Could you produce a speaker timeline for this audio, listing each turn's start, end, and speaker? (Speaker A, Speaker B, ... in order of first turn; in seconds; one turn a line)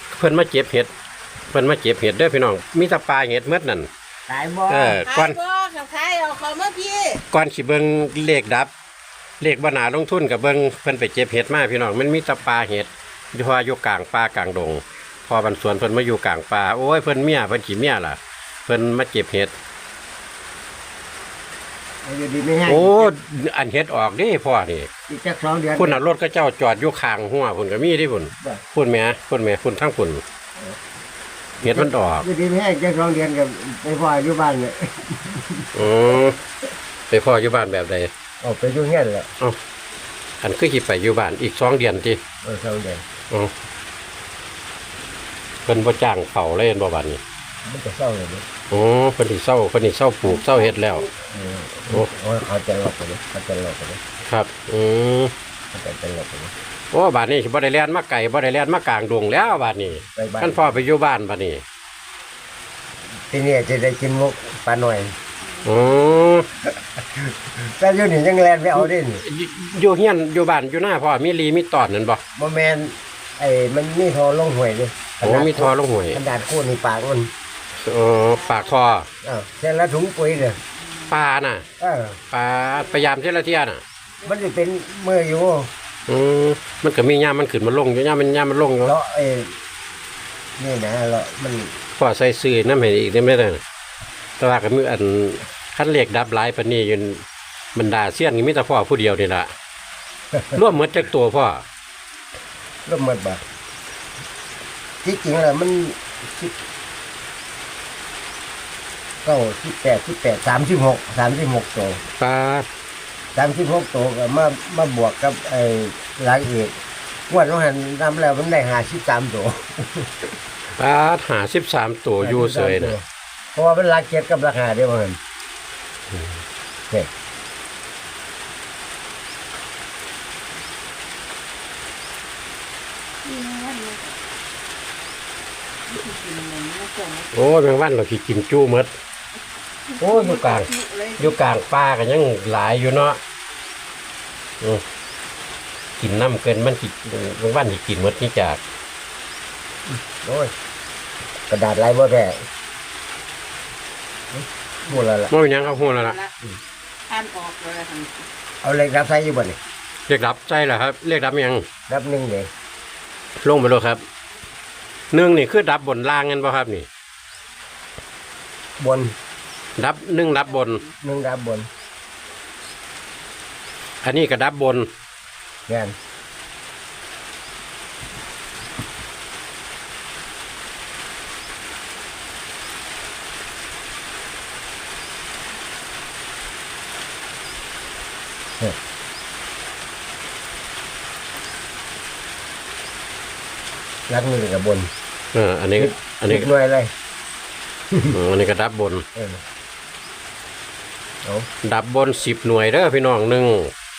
Speaker A: 0.1-0.9
Speaker A: 1.5-3.9
Speaker B: 4.3-5.0
Speaker A: 4.7-5.4
Speaker C: 5.0-7.2
Speaker A: 7.3-8.7
Speaker A: 9.4-19.5
Speaker B: 22.0-23.1
Speaker A: 22.7-24.9
Speaker B: 25.1-26.0
Speaker A: 25.8-30.2
Speaker B: 31.6-35.9
Speaker A: 31.6-32.3
Speaker A: 35.8-36.4
Speaker A: 37.1-38.1
Speaker B: 38.4-39.3
Speaker A: 40.4-42.2
Speaker B: 42.4-43.0
Speaker A: 45.7-47.2
Speaker B: 47.7-48.5
Speaker A: 48.7-51.1
Speaker B: 51.2-54.0
Speaker A: 54.3-55.3
Speaker B: 55.7-56.5
Speaker A: 56.9-61.6
Speaker B: 60.2-60.7
Speaker B: 63.3-65.2
Speaker A: 65.6-66.5
Speaker B: 67.3-69.2
Speaker A: 68.8-72.2
Speaker B: 72.4-77.3
Speaker A: 75.2-76.2
Speaker A: 77.8-79.1
Speaker B: 79.2-80.6
Speaker A: 81.1-81.7
Speaker B: 81.8-82.2
Speaker A: 82.3-83.8
Speaker B: 84.2-85.7
Speaker A: 86.1-88.9
Speaker B: 88.8-89.6
Speaker B: 90.6-91.8
Speaker A: 92.0-93.6
Speaker A: 94.4-97.2
Speaker A: 97.8-99.5
Speaker A: 100.5-101.6
Speaker B: 102.9-103.4
Speaker B: 105.0-106.5
Speaker B: 109.2-112.0
Speaker A: 112.2-112.7
Speaker B: 113.3-116.8
Speaker B: 117.3-120.1
Speaker A: 120.8-123.0
Speaker B: 122.2-123.0
Speaker B: 123.5-125.2
Speaker C: 133.2-134.2
Speaker C: 135.9-137.3
Speaker A: 137.3-138.9
Speaker A: 140.0-143.2
Speaker C: 140.0-141.3
Speaker A: 146.0-148.6
Speaker B: 149.9-150.5
Speaker B: 151.5-152.4
Speaker B: 154.3-155.3
Speaker A: 155.3-156.2
Speaker C: 155.8-156.1
Speaker C: 157.1-158.3
Speaker B: 158.6-159.6
Speaker A: 160.1-161.7
Speaker B: 161.9-162.5
Speaker A: 163.4-164.0
Speaker A: 165.1-166.9
Speaker B: 168.8-169.2
Speaker A: 169.8-170.9
Speaker B: 171.0-171.7
Speaker A: 174.0-174.9
Speaker B: 175.7-175.9
Speaker B: 194.1-194.9
Speaker A: 195.3-196.5
Speaker B: 195.8-196.9
Speaker A: 198.1-199.1
Speaker B: 199.2-199.4
Speaker A: 201.6-203.7